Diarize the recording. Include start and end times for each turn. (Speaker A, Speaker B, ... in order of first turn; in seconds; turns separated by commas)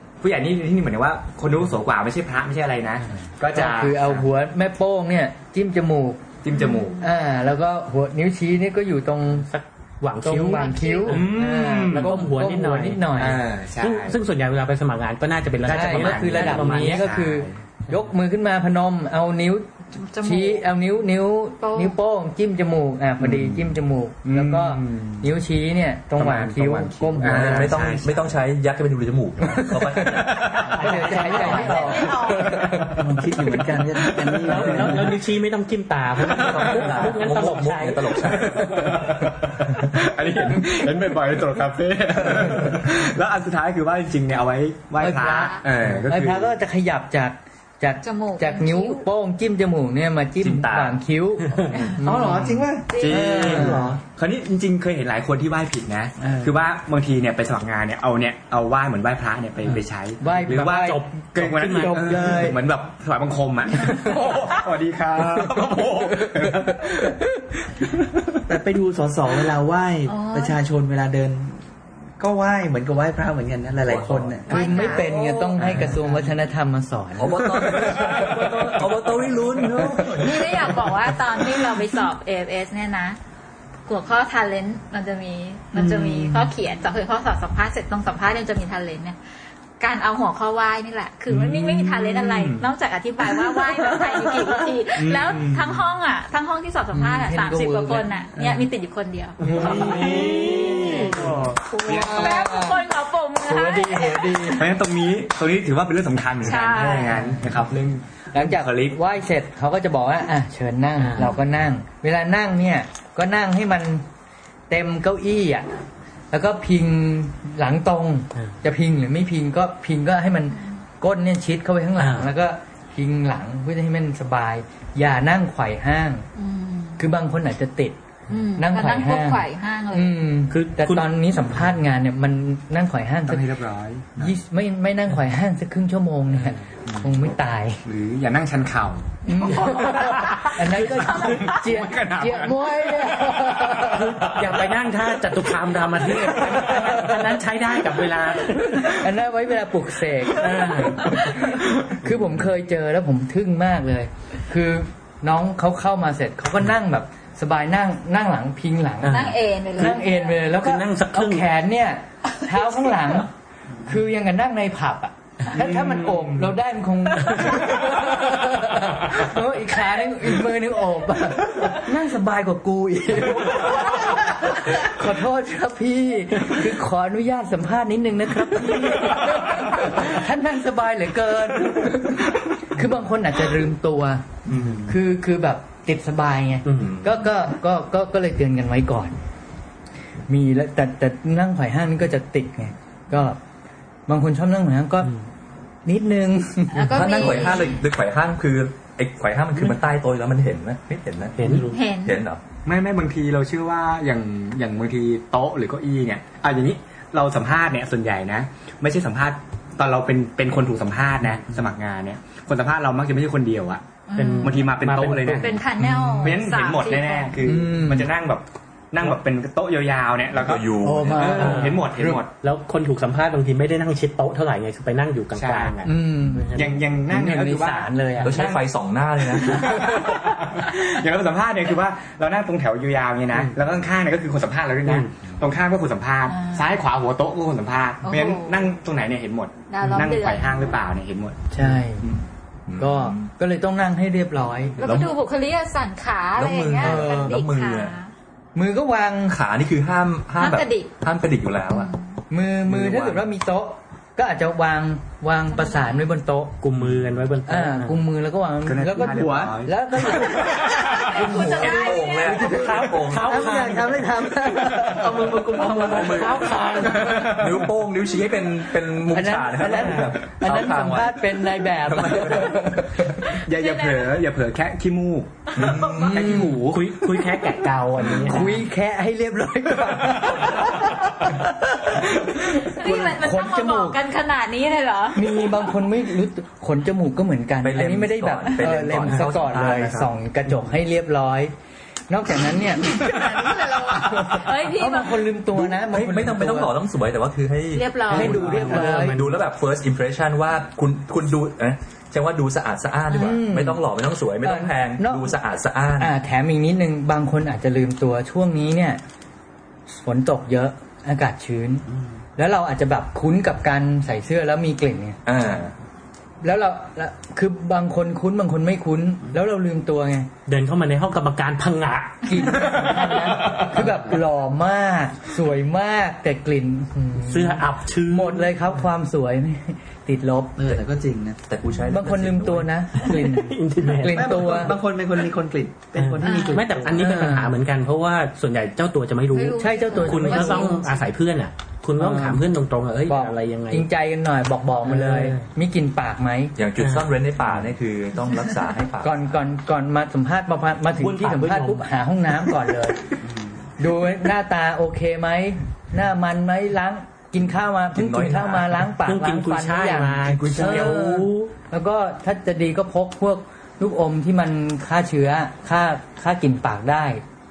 Speaker A: 0.2-4.3, Speaker B: 3.5-6.2, Speaker A: 6.4-7.0, Speaker C: 6.5-6.9, Speaker B: 7.0-9.5, Speaker D: 9.4-13.1, Speaker B: 10.2-13.4, Speaker C: 10.5-11.2, Speaker A: 11.1-12.2, Speaker A: 13.1-14.2, Speaker D: 13.8-17.1, Speaker A: 15.6-17.6, Speaker B: 15.7-27.7, Speaker C: 19.9-20.6, Speaker C: 21.6-21.9, Speaker A: 24.2-25.3, Speaker A: 26.2-28.3, Speaker E: 27.3-30.6, Speaker B: 29.5-30.2, Speaker A: 30.2-30.8, Speaker D: 30.6-32.0, Speaker B: 30.7-32.6, Speaker C: 31.1-32.6, Speaker F: 32.9-35.1, Speaker A: 34.0-34.9, Speaker D: 34.3-38.4, Speaker E: 36.3-38.9, Speaker A: 38.4-46.5, Speaker B: 45.0-52.7, Speaker C: 45.1-45.6, Speaker C: 48.0-49.0, Speaker E: 50.4-51.0, Speaker D: 51.5-51.9, Speaker F: 52.0-54.0, Speaker C: 52.9-53.6, Speaker A: 53.0-67.1, Speaker B: 53.3-53.8, Speaker F: 56.2-56.5, Speaker B: 60.2-61.0, Speaker D: 60.5-62.4, Speaker B: 61.8-62.6, Speaker F: 68.5-71.6, Speaker C: 70.1-70.6, Speaker F: 72.2-74.5, Speaker E: 73.8-74.4, Speaker C: 74.5-75.5, Speaker B: 74.5-77.5, Speaker E: 75.6-75.9, Speaker E: 77.2-80.7, Speaker C: 80.0-83.2, Speaker C: 83.9-89.2, Speaker C: 89.8-99.4, Speaker A: 91.3-92.7, Speaker A: 95.0-95.8, Speaker B: 96.9-98.1, Speaker B: 99.4-102.9, Speaker A: 99.4-102.4, Speaker D: 99.5-101.4, Speaker C: 101.9-104.4, Speaker B: 103.4-104.7, Speaker A: 104.5-109.0, Speaker C: 106.4-107.2, Speaker B: 107.1-107.5, Speaker B: 108.3-114.0, Speaker D: 111.0-111.4, Speaker B: 114.7-115.7, Speaker B: 116.3-126.2, Speaker D: 122.0-122.3, Speaker C: 126.3-127.0, Speaker B: 127.0-128.0, Speaker C: 128.3-130.2, Speaker B: 128.6-133.5, Speaker D: 130.5-131.1, Speaker A: 133.3-134.3, Speaker B: 134.2-137.8, Speaker A: 137.8-139.6, Speaker B: 139.2-144.3, Speaker C: 139.4-140.2, Speaker D: 139.5-140.8, Speaker C: 140.9-141.5, Speaker A: 141.0-143.1, Speaker D: 143.8-149.1, Speaker B: 146.6-147.1, Speaker B: 148.7-163.3, Speaker D: 150.3-151.4, Speaker D: 159.0-161.5, Speaker C: 159.1-160.3, Speaker B: 163.8-184.3, Speaker D: 165.6-166.3, Speaker D: 167.3-167.6, Speaker B: 184.8-189.2, Speaker D: 186.7-187.0, Speaker B: 190.3-193.4, Speaker B: 194.1-195.1, Speaker B: 195.8-197.6, Speaker C: 196.7-197.8, Speaker E: 196.8-202.4, Speaker D: 201.3-201.9, Speaker C: 201.7-202.2, Speaker A: 202.6-213.8, Speaker C: 214.1-214.7, Speaker D: 214.2-215.6, Speaker A: 214.4-215.6, Speaker C: 215.2-217.4, Speaker B: 215.8-216.4, Speaker A: 216.2-222.3, Speaker B: 217.4-218.1, Speaker E: 220.3-221.7, Speaker B: 220.8-222.2, Speaker D: 221.4-226.8, Speaker A: 225.3-225.7, Speaker B: 225.8-228.5, Speaker A: 226.5-228.6, Speaker E: 228.2-229.9, Speaker A: 229.4-242.2, Speaker D: 234.8-235.1, Speaker C: 236.3-236.7, Speaker C: 238.0-238.7, Speaker C: 239.7-240.6, Speaker B: 241.5-242.0, Speaker E: 242.7-243.3, Speaker B: 242.8-244.8, Speaker E: 244.8-245.1, Speaker C: 244.8-248.1, Speaker E: 246.3-247.9, Speaker B: 246.8-247.4, Speaker B: 248.5-249.4, Speaker E: 249.3-251.9, Speaker C: 250.4-250.9, Speaker C: 251.7-252.0, Speaker B: 252.3-256.6, Speaker E: 252.7-253.2, Speaker C: 255.6-256.0, Speaker D: 256.6-258.0, Speaker B: 257.4-265.1, Speaker A: 258.6-259.7, Speaker F: 258.9-259.5, Speaker C: 260.8-262.5, Speaker E: 261.1-263.5, Speaker D: 262.3-264.1, Speaker F: 263.5-266.4, Speaker D: 265.1-267.4, Speaker E: 265.9-266.5, Speaker A: 267.0-267.5, Speaker E: 267.1-272.9, Speaker B: 269.1-273.4, Speaker F: 269.6-270.0, Speaker D: 269.7-270.1, Speaker A: 273.4-276.9, Speaker C: 273.5-274.2, Speaker E: 275.5-276.3, Speaker B: 275.9-276.7, Speaker D: 276.7-278.6, Speaker E: 278.0-278.4, Speaker B: 278.2-284.0, Speaker E: 280.1-280.9, Speaker C: 282.5-285.2, Speaker B: 285.1-291.5, Speaker E: 287.6-290.1, Speaker B: 292.1-296.7, Speaker C: 292.9-295.3, Speaker E: 295.5-306.1, Speaker C: 297.7-298.4, Speaker D: 298.1-299.4, Speaker B: 298.1-299.2, Speaker B: 303.1-303.8, Speaker B: 304.4-305.4, Speaker B: 306.0-309.0, Speaker B: 310.0-311.9, Speaker B: 312.4-315.2, Speaker E: 315.2-315.7, Speaker B: 316.4-320.3, Speaker D: 320.5-324.1, Speaker B: 322.2-330.7, Speaker D: 327.1-328.6, Speaker F: 330.6-331.4, Speaker E: 331.5-332.7, Speaker B: 331.9-334.8, Speaker D: 333.0-334.7, Speaker F: 334.1-337.0, Speaker D: 336.0-343.9, Speaker C: 336.2-336.7, Speaker B: 336.9-337.5, Speaker C: 339.3-341.1, Speaker B: 339.6-340.8, Speaker B: 342.0-342.4, Speaker B: 343.1-346.5, Speaker D: 344.8-345.5, Speaker E: 346.6-349.3, Speaker D: 346.8-347.1, Speaker B: 349.0-353.0, Speaker D: 350.9-351.9, Speaker B: 353.8-367.2, Speaker E: 357.9-359.0, Speaker D: 359.0-361.5, Speaker E: 360.2-361.0